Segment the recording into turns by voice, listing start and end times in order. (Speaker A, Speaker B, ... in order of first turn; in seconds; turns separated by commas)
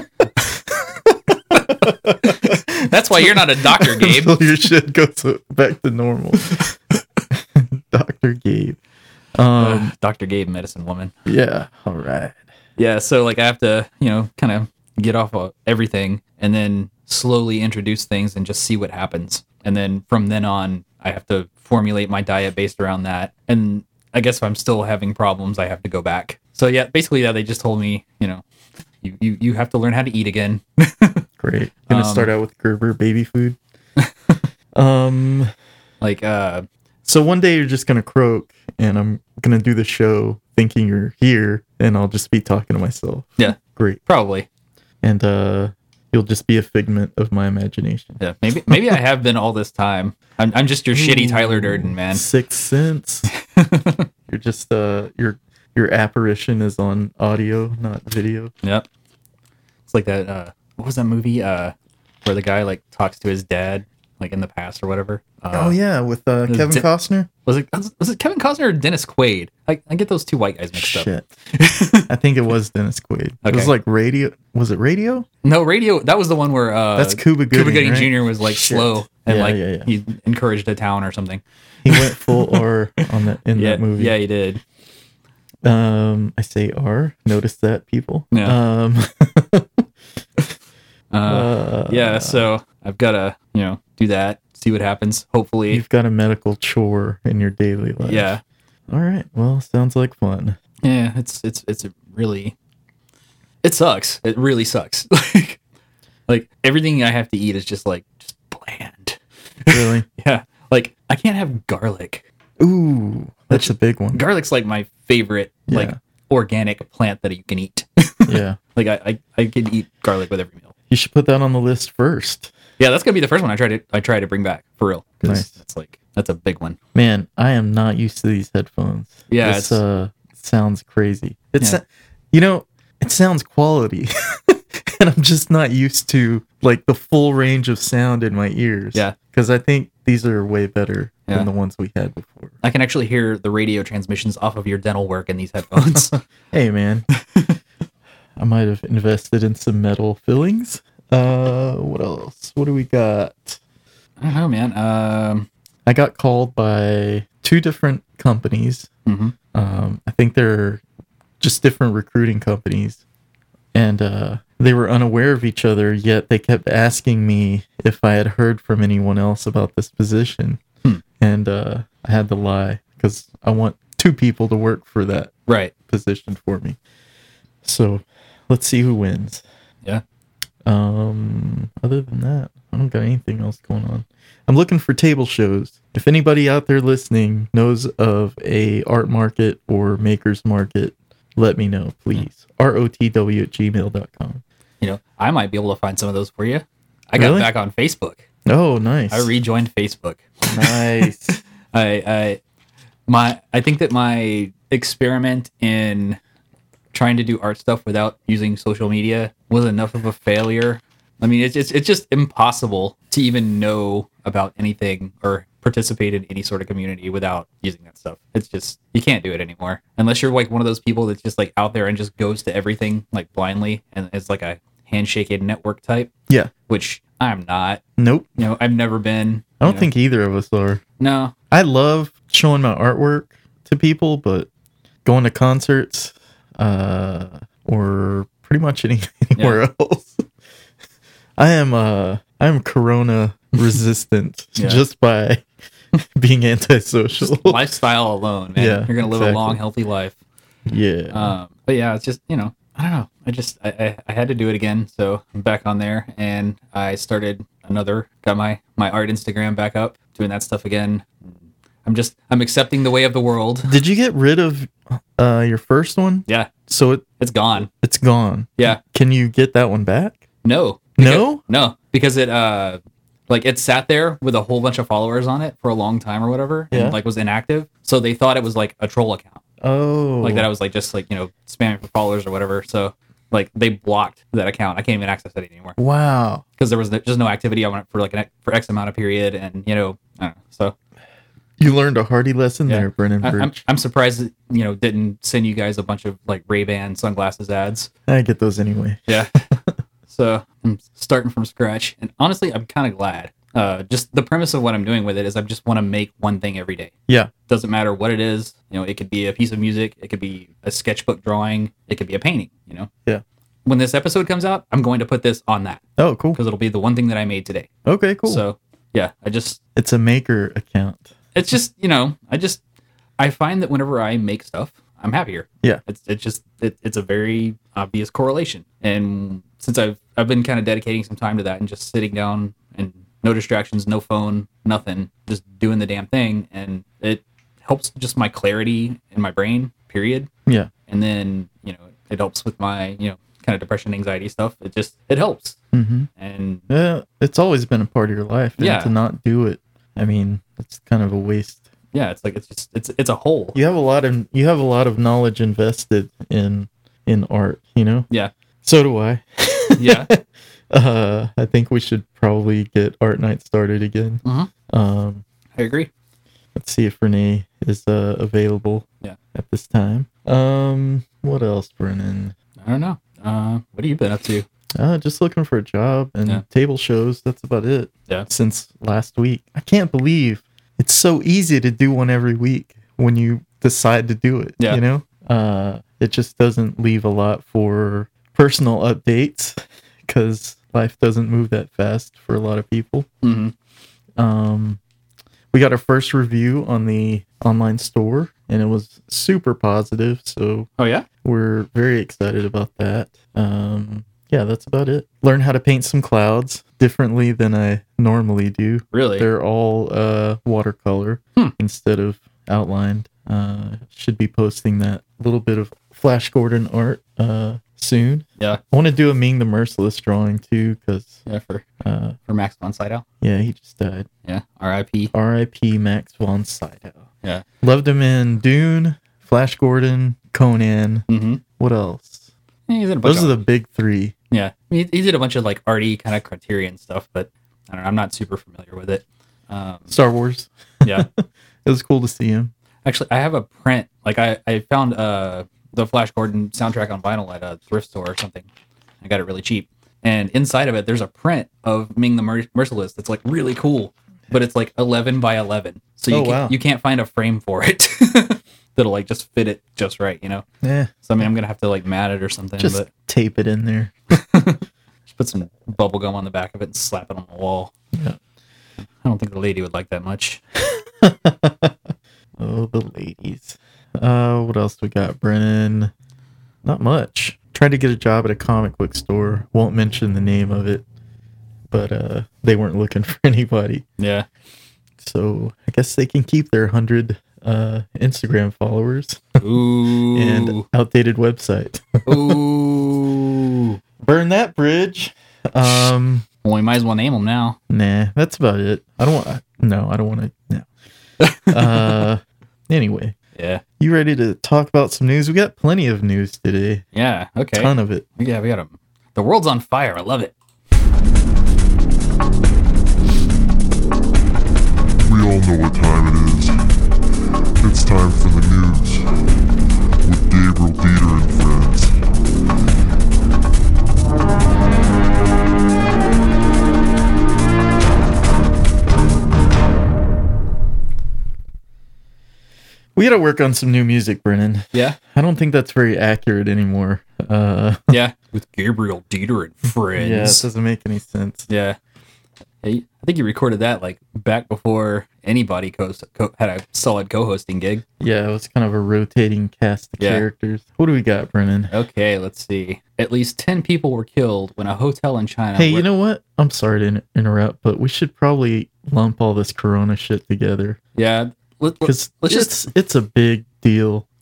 Speaker A: 0.4-6.6, Speaker B: 2.4-4.4, Speaker A: 7.3-8.8, Speaker A: 9.3-9.9, Speaker B: 9.6-11.1, Speaker A: 11.2-12.3, Speaker B: 12.8-28.4, Speaker B: 29.0-31.2, Speaker A: 31.4-33.6, Speaker B: 31.9-32.3, Speaker B: 34.0-34.4, Speaker A: 34.7-35.5, Speaker B: 36.0-36.6, Speaker A: 37.0-44.0, Speaker B: 44.1-44.5, Speaker A: 45.0-49.0, Speaker B: 48.2-52.2, Speaker A: 50.9-53.3, Speaker B: 53.3-54.0, Speaker A: 54.3-58.5, Speaker B: 59.9-65.8, Speaker A: 65.5-67.3, Speaker B: 66.5-66.9, Speaker B: 67.5-72.1, Speaker A: 70.7-71.3, Speaker A: 72.1-75.2, Speaker B: 73.4-73.7, Speaker B: 75.4-82.6, Speaker A: 77.0-79.9, Speaker A: 81.8-84.1, Speaker B: 83.5-84.6, Speaker A: 85.6-89.8, Speaker B: 88.3-88.6, Speaker B: 91.1-95.8, Speaker A: 91.2-92.4, Speaker A: 95.7-98.3, Speaker B: 98.0-98.4, Speaker A: 98.9-100.6, Speaker B: 100.8-102.5, Speaker B: 103.6-105.6, Speaker B: 106.3-112.2, Speaker A: 109.7-110.0, Speaker A: 112.6-114.2, Speaker B: 113.5-120.7, Speaker A: 115.7-116.0, Speaker A: 118.3-118.6, Speaker A: 120.9-122.5, Speaker B: 122.8-126.8, Speaker A: 125.2-125.5, Speaker A: 126.9-142.5, Speaker B: 129.3-129.8, Speaker B: 142.6-146.2, Speaker A: 145.8-147.1, Speaker B: 147.3-147.6, Speaker A: 148.4-153.6, Speaker B: 154.2-155.5, Speaker A: 155.8-158.9, Speaker B: 159.1-159.3, Speaker A: 159.5-160.8, Speaker A: 161.4-163.0, Speaker A: 163.7-170.6, Speaker A: 171.2-175.3, Speaker B: 175.5-175.7, Speaker A: 175.9-176.8, Speaker A: 177.6-179.4, Speaker A: 180.7-194.4, Speaker B: 194.8-198.2, Speaker A: 197.2-197.5, Speaker A: 198.4-199.3, Speaker B: 199.1-200.8, Speaker A: 200.5-201.4, Speaker B: 201.7-202.4, Speaker B: 203.1-206.2, Speaker B: 206.9-226.1, Speaker B: 226.7-227.8, Speaker A: 228.0-228.4, Speaker B: 228.4-229.9, Speaker A: 229.6-230.8, Speaker B: 231.0-231.3, Speaker A: 231.5-234.5, Speaker A: 235.0-240.2, Speaker A: 241.4-245.4, Speaker B: 244.6-244.8, Speaker A: 246.1-247.6, Speaker B: 247.2-250.1, Speaker A: 248.6-249.6, Speaker A: 250.7-251.3, Speaker B: 251.1-261.2, Speaker B: 261.8-263.7, Speaker A: 263.7-267.0, Speaker B: 266.3-266.5, Speaker B: 267.2-267.7, Speaker A: 267.7-270.2, Speaker B: 270.4-279.4, Speaker A: 271.0-271.4, Speaker A: 276.7-277.0, Speaker A: 279.6-280.5, Speaker B: 280.2-285.8, Speaker A: 285.8-286.4, Speaker B: 286.6-290.7, Speaker A: 291.6-293.6, Speaker B: 292.7-297.9, Speaker A: 298.1-299.6, Speaker B: 299.1-299.3, Speaker B: 300.1-306.9, Speaker B: 307.5-312.9, Speaker B: 313.6-317.7, Speaker A: 316.0-316.4, Speaker A: 317.8-318.4, Speaker B: 318.2-319.6, Speaker A: 319.8-321.1, Speaker B: 321.3-322.6, Speaker B: 323.2-340.3, Speaker B: 340.9-345.6, Speaker A: 345.7-346.1, Speaker B: 346.2-346.6, Speaker A: 346.7-351.6, Speaker B: 348.6-348.9, Speaker B: 351.9-353.6, Speaker A: 353.5-358.1, Speaker A: 358.6-365.2, Speaker B: 359.8-360.1, Speaker B: 364.2-364.5, Speaker B: 365.5-365.9, Speaker A: 366.5-372.3, Speaker B: 372.6-374.4, Speaker A: 374.7-393.1, Speaker B: 393.2-393.5, Speaker A: 394.2-394.8, Speaker A: 395.5-400.7, Speaker B: 400.8-401.1, Speaker A: 401.2-421.2, Speaker B: 408.9-409.2, Speaker B: 421.3-421.6, Speaker A: 421.8-422.1, Speaker B: 422.3-423.0, Speaker A: 423.2-424.1, Speaker B: 424.2-425.1, Speaker A: 425.1-427.0, Speaker A: 427.6-431.1, Speaker B: 431.1-431.4, Speaker A: 431.6-432.2, Speaker B: 432.7-433.4, Speaker A: 433.0-434.1, Speaker B: 434.3-439.9, Speaker A: 439.9-442.5, Speaker B: 442.8-448.5, Speaker B: 449.0-460.4, Speaker A: 456.1-456.6, Speaker A: 460.6-460.9, Speaker B: 461.0-462.9, Speaker A: 462.6-463.9, Speaker B: 464.1-467.7, Speaker A: 467.9-468.2, Speaker B: 469.0-470.4, Speaker A: 471.0-471.7, Speaker A: 472.4-475.9, Speaker A: 476.6-480.8, Speaker A: 481.7-483.8, Speaker B: 484.0-484.3, Speaker A: 485.0-489.4, Speaker B: 489.4-490.6, Speaker A: 490.1-492.4, Speaker B: 492.1-493.8, Speaker A: 494.0-496.2, Speaker B: 495.6-495.9, Speaker B: 496.4-497.6, Speaker A: 497.7-500.6, Speaker B: 501.2-502.0, Speaker A: 501.5-503.1, Speaker B: 503.3-503.6, Speaker A: 503.8-506.8, Speaker B: 506.9-510.3, Speaker A: 507.6-508.0, Speaker C: 515.0-516.8, Speaker C: 517.6-519.2, Speaker C: 520.0-522.0, Speaker A: 533.0-538.0, Speaker B: 534.7-535.0, Speaker B: 537.9-540.4, Speaker A: 539.9-541.5, Speaker B: 541.5-541.8, Speaker B: 542.6-547.8, Speaker A: 548.0-551.7, Speaker B: 550.0-550.2, Speaker B: 551.7-555.9, Speaker A: 555.5-560.8, Speaker B: 560.9-562.6, Speaker A: 561.8-564.0